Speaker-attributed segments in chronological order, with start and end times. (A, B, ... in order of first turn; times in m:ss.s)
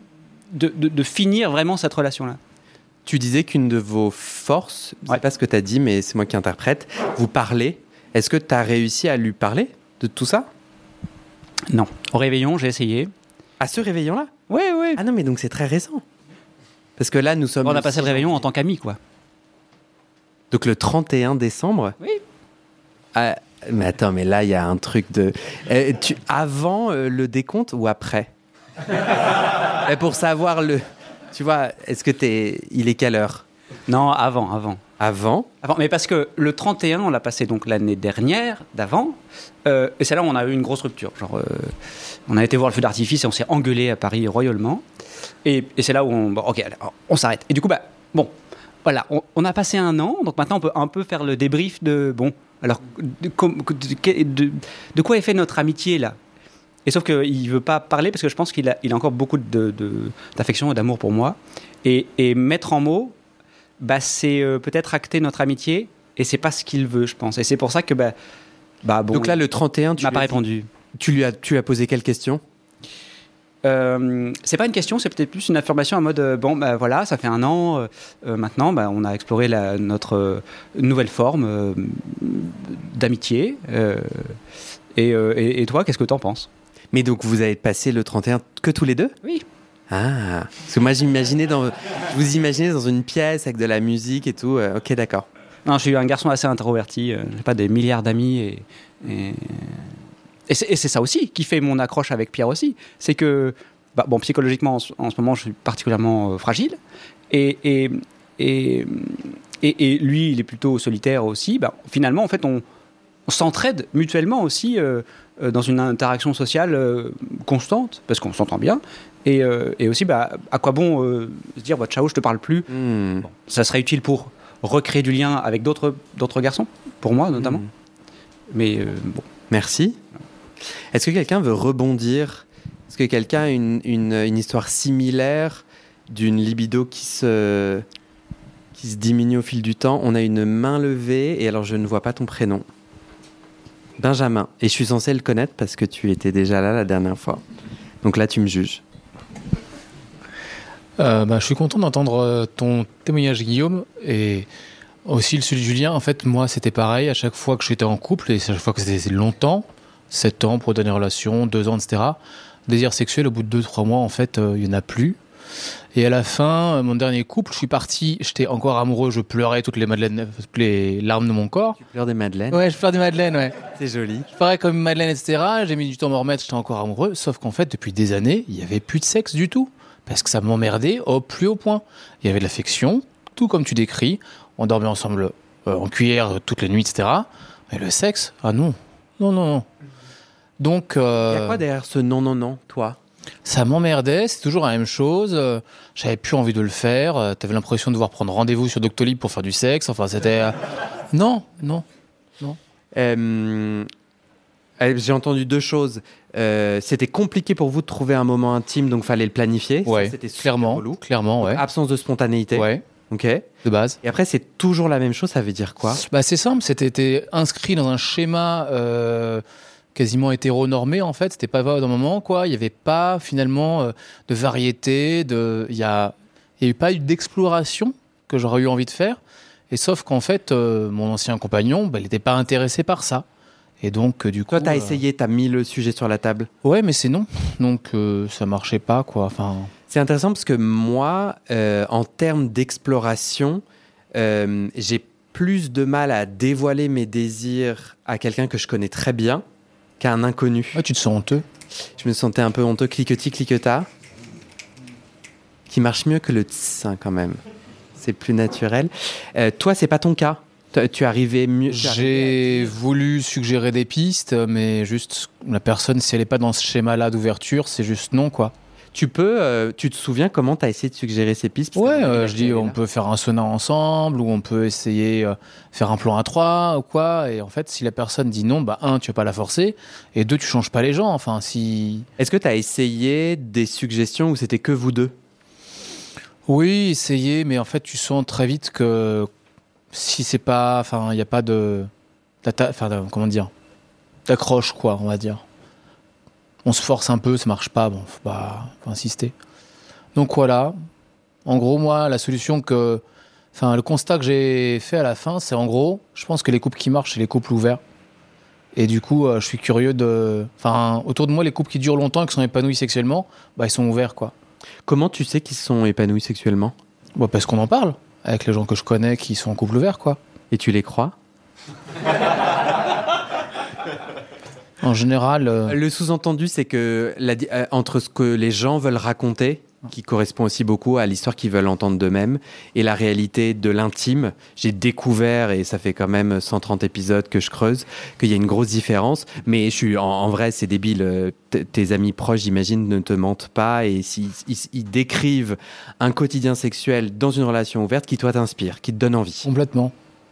0:00.5-0:02.4 A
0:03.0-0:10.5 B
0:11.7-0:13.1 A
0:13.6-0:14.3 B
0:14.5-0:15.0 A
0:15.0-0:16.0 B
0:17.0-0:18.4 B
0:17.6-0:19.0 A
0:20.5-0:22.0 B
0:23.1-0:28.3 B
0:29.6-0:33.4 B
0:33.9-0:34.8 A
0:35.0-0:35.5 B
0:35.6-0:41.7 A
0:42.3-0:44.8 A
0:45.4-0:48.3 A
0:48.8-0:56.2 A
0:56.8-1:03.2 A
1:03.8-1:08.1 A
1:08.8-1:09.4 A
1:09.1-1:10.4 B
1:10.0-1:10.7 A
1:11.0-1:12.4 B
1:13.6-1:24.4 A
1:24.9-1:26.5 A
1:26.9-1:29.2 B
1:29.9-1:35.3 B
1:35.6-1:39.9 A
1:40.5-1:46.8 A
1:47.3-1:52.6 A
1:53.3-2:02.7 A
2:02.7-2:03.3 B
2:03.2-2:07.6 A
2:07.4-2:07.7 B
2:08.5-2:09.3 A
2:09.5-2:10.0 B
2:10.9-2:17.8 B
2:18.7-2:22.6 B
2:24.0-2:27.4 B
2:28.0-2:28.8 B
2:31.0-2:34.5 C
2:35.0-2:45.2 C
2:45.9-2:51.8 C
2:51.8-2:52.6 B
2:52.5-2:53.6 C
2:53.7-2:54.3 B
2:54.3-3:09.7 C
3:10.6-3:11.6 C
3:11.3-3:13.0 B
3:13.4-3:20.6 C
3:21.1-3:21.8 C
3:22.9-3:23.9 B
3:24.8-3:33.5 B
3:29.8-3:31.6 C
3:32.5-3:32.8 C
3:33.6-3:34.0 C
3:34.0-3:36.0 B
3:36.0-3:39.4 C
3:39.9-3:49.2 C
3:49.7-3:53.2 C
3:53.8-3:55.0 C
3:54.5-3:56.5 B
3:56.6-3:59.7 C
3:59.9-4:03.6 B
4:04.1-4:09.4 B
4:10.0-4:10.8 B
4:10.7-4:11.4 C
4:12.0-4:13.9 B
4:15.7-4:17.4 B
4:18.0-4:22.2 B
4:21.7-4:28.5 C
4:28.9-4:32.8 B
4:31.7-4:42.1 C
4:42.2-4:45.1 B
4:46.5-4:49.3 C
4:49.9-4:51.9 C
4:52.4-4:53.5 C
4:54.3-4:55.4 C
4:56.6-4:59.3 C
5:00.1-5:00.8 C
5:01.4-5:03.0 C
5:03.5-5:07.8 C
5:08.7-5:14.3 C
5:14.9-5:16.7 B
5:17.2-5:20.2 C
5:20.5-5:21.1 B
5:24.8-5:25.8 C
5:25.6-5:49.5 B
5:49.4-5:49.9 C